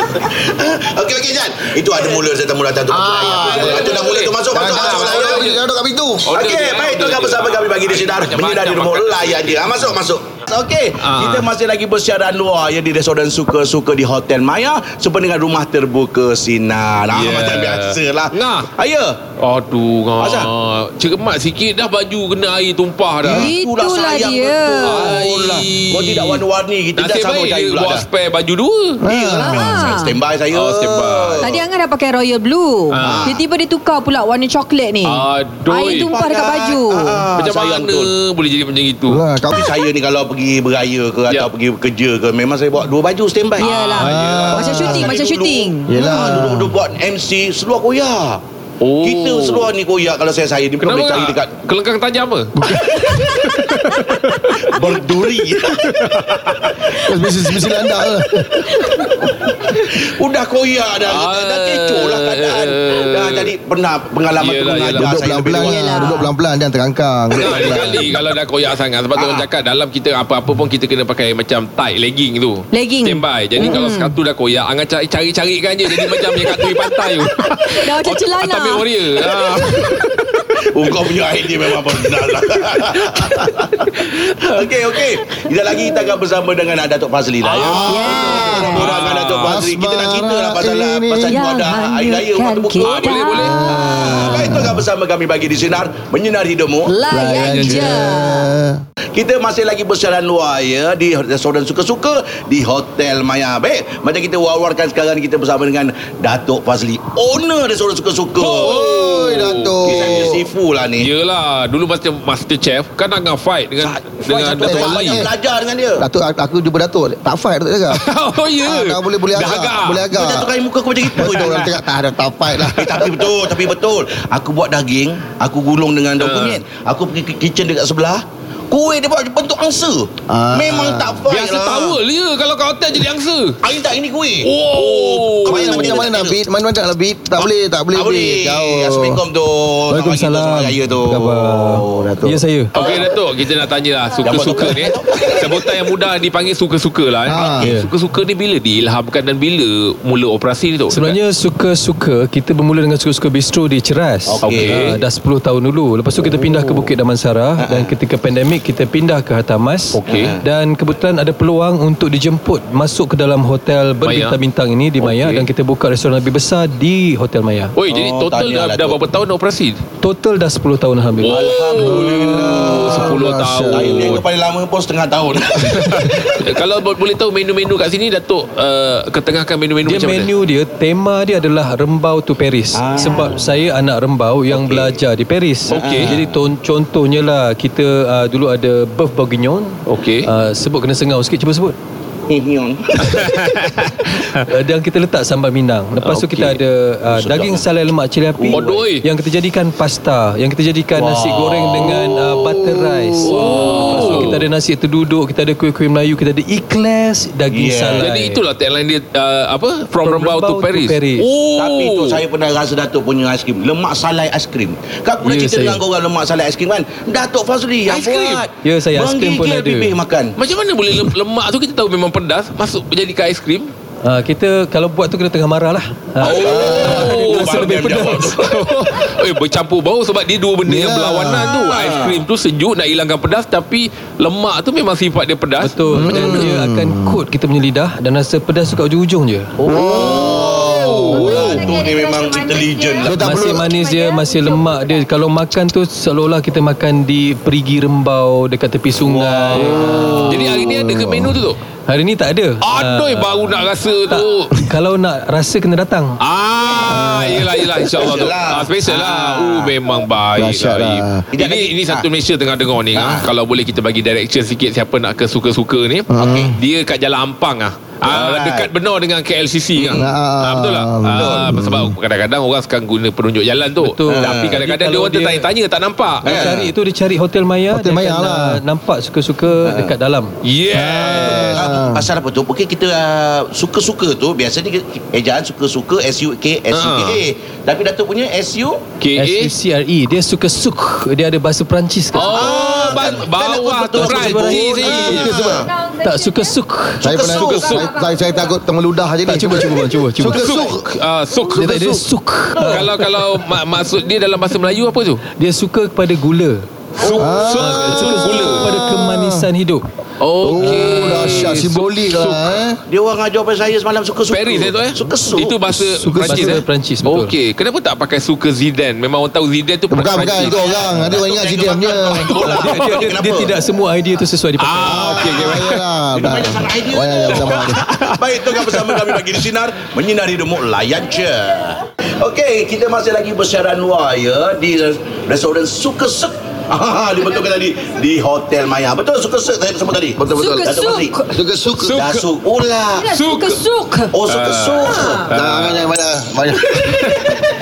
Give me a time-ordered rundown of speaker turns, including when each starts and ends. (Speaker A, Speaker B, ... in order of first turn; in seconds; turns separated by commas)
Speaker A: 0.2-5.6, Speaker B: 2.9-5.6, Speaker C: 2.9-6.2, Speaker B: 6.3-10.0, Speaker A: 6.3-19.2, Speaker B: 11.0-11.5, Speaker B: 17.1-18.7, Speaker B: 19.4-23.6, Speaker A: 20.2-20.5, Speaker A: 23.2-28.1, Speaker D: 23.3-25.2, Speaker B: 24.8-26.4, Speaker B: 27.0-29.1, Speaker C: 29.0-29.9, Speaker A: 29.0-31.6, Speaker D: 29.3-30.2, Speaker B: 30.5-31.6, Speaker D: 31.4-37.3, Speaker B: 32.9-33.4, Speaker A: 33.0-33.4, Speaker B: 35.0-36.2, Speaker A: 36.1-38.1, Speaker B: 37.4-39.2, Speaker C: 39.1-39.6, Speaker A: 39.5-48.4, Speaker D: 43.6-46.3, Speaker B: 43.6-44.5, Speaker C: 43.9-45.2, Speaker C: 45.9-46.8, Speaker B: 48.8-49.7, Speaker A: 49.0-51.6, Speaker B: 50.8-54.9, Speaker A: 52.6-53.5, Speaker A: 54.7-56.2, Speaker C: 54.8-55.4, Speaker B: 55.8-56.9, Speaker C: 56.9-59.5, Speaker D: 58.8-59.0, Speaker A: 59.7-66.2, Speaker B: 61.1-63.5, Speaker B: 64.4-65.1, Speaker C: 65.0-68.2, Speaker D: 65.6-66.3, Speaker A: 67.3-67.8, Speaker B: 67.3-80.5, Speaker A: 69.1-69.5, Speaker D: 72.7-74.2, Speaker D: 76.3-76.7, Speaker D: 77.6-80.0, Speaker A: 80.7-98.0, Speaker D: 85.4-86.1, Speaker B: 87.4-89.5, Speaker C: 87.6-88.8, Speaker D: 87.8-89.0, Speaker C: 89.4-91.5, Speaker D: 91.2-94.5, Speaker B: 92.8-93.6, Speaker C: 93.4-94.9, Speaker D: 96.9-98.5, Speaker C: 97.1-98.8, Speaker A: 99.1-108.8, Speaker B: 108.4-110.4, Speaker C: 108.5-110.4, Speaker A: 109.8-111.1, Speaker B: 111.0-115.3, Speaker A: 113.8-116.0, Speaker C: 114.5-115.3, Speaker C: 116.0-118.1, Speaker B: 117.9-120.1, Speaker C: 118.6-120.5, Speaker A: 120.1-121.8, Speaker B: 121.0-121.7, Speaker C: 121.2-123.2, Speaker A: 122.8-132.0, Speaker B: 126.2-126.6, Speaker C: 130.3-131.2, Speaker B: 131.3-133.6, Speaker A: 133.6-136.4, Speaker B: 134.4-136.0, Speaker C: 135.4-139.2, Speaker A: 137.4-142.1, Speaker E: 139.9-142.7, Speaker C: 141.3-142.4, Speaker A: 142.7-143.2, Speaker B: 142.7-151.2, Speaker A: 144.2-145.7, Speaker E: 144.2-144.8, Speaker C: 147.3-147.7, Speaker E: 147.6-147.9, Speaker E: 150.9-167.7, Speaker A: 154.3-154.9, Speaker B: 154.4-155.0, Speaker A: 157.6-157.9, Speaker B: 159.9-160.3, Speaker A: 160.1-160.4, Speaker B: 164.0-164.4, Speaker B: 165.0-165.5, Speaker B: 167.8-169.8, Speaker A: 167.9-169.0, Speaker E: 170.0-171.4, Speaker B: 171.2-174.2, Speaker A: 171.2-176.4, Speaker C: 171.8-174.2, Speaker B: 175.7-180.3, Speaker E: 179.8-191.8, Speaker A: 182.7-183.5, Speaker A: 184.5-184.9, Speaker B: 185.7-186.2, Speaker A: 185.7-186.3, Speaker B: 189.9-190.3, Speaker A: 192.3-193.4, Speaker B: 193.1-194.4, Speaker E: 194.3-208.4, Speaker B: 196.0-196.6, Speaker A: 197.1-197.7, Speaker A: 198.4-198.8, Speaker B: 198.5-199.1, Speaker A: 200.9-202.2, Speaker B: 201.7-202.0, Speaker A: 203.0-204.4, Speaker B: 203.2-204.4, Speaker A: 207.5-208.1, Speaker B: 208.0-212.2, Speaker E: 210.0-211.3, Speaker A: 211.6-220.3, Speaker E: 215.2-215.8, Speaker B: 217.9-218.4, Speaker E: 218.6-219.9, Speaker B: 220.4-223.7, Speaker E: 224.0-228.4, Speaker B: 226.2-236.5, Speaker A: 226.2-228.6, Speaker C: 226.4-227.1, Speaker C: 230.7-231.6, Speaker A: 231.5-232.2, Speaker E: 235.6-239.6, Speaker C: 235.9-237.2, Speaker A: 239.6-243.6, Speaker C: 239.7-241.6, Speaker B: 239.7-241.5, Speaker D: 241.1-245.1, Speaker E: 241.2-241.6, Speaker C: 243.0-243.7, Speaker E: 243.2-250.7, Speaker A: 249.0-250.2, Speaker C: 249.7-251.3, Speaker B: 250.2-251.6, Speaker E: 251.9-256.2, Speaker B: 252.6-254.5, Speaker B: 256.2-276.5, Speaker C: 256.8-257.9, Speaker A: 258.0-259.7, Speaker C: 260.4-261.3, Speaker A: 261.3-262.1, Speaker A: 262.9-263.3, Speaker C: 266.1-266.6, Speaker A: 266.2-266.5, Speaker A: 268.1-268.7, Speaker A: 269.7-270.1, Speaker C: 269.9-272.0, Speaker E: 271.1-271.5, Speaker E: 273.8-275.5, Speaker A: 274.1-274.6, Speaker E: 276.2-280.3, Speaker A: 276.2-276.7, Speaker C: 277.7-278.6, Speaker A: 279.6-279.9, Speaker B: 280.4-281.6, Speaker C: 280.7-282.1, Speaker A: 281.2-288.8, Speaker B: 286.7-287.2, Speaker B: 289.0-289.5, Speaker E: 289.2-292.5, Speaker B: 292.1-295.6, Speaker A: 292.2-295.7, Speaker E: 294.0-297.2, Speaker C: 294.0-295.7, Speaker D: 295.6-296.6, Speaker C: 297.0-300.8, Speaker B: 297.1-297.9, Speaker D: 297.1-298.5, Speaker E: 299.3-300.4, Speaker B: 300.3-305.2, Speaker E: 301.6-303.1, Speaker E: 305.4-306.7, Speaker B: 307.0-308.7, Speaker C: 307.1-309.4, Speaker E: 307.2-309.9, Speaker B: 310.2-312.5, Speaker C: 310.4-312.8, Speaker A: 312.9-315.6, Speaker B: 314.3-321.2, Speaker C: 315.6-316.6, Speaker E: 316.0-317.3, Speaker C: 319.9-322.7, Speaker A: 320.2-323.6, Speaker B: 322.2-323.0, Speaker E: 322.4-325.3, Speaker B: 324.6-325.8, Speaker C: 324.8-327.8, Speaker A: 326.1-341.2, Speaker B: 327.3-329.2, Speaker C: 340.2-340.7, Speaker D: 340.3-341.4, Speaker C: 341.3-342.0, Speaker B: 341.7-342.2, Speaker A: 341.9-343.1, Speaker D: 342.9-344.1, Speaker B: 343.1-343.6, Speaker A: 344.1-345.3, Speaker B: 344.3-345.9, Speaker D: 344.9-345.3, Speaker C: 345.3-347.1, Speaker B: 346.8-347.3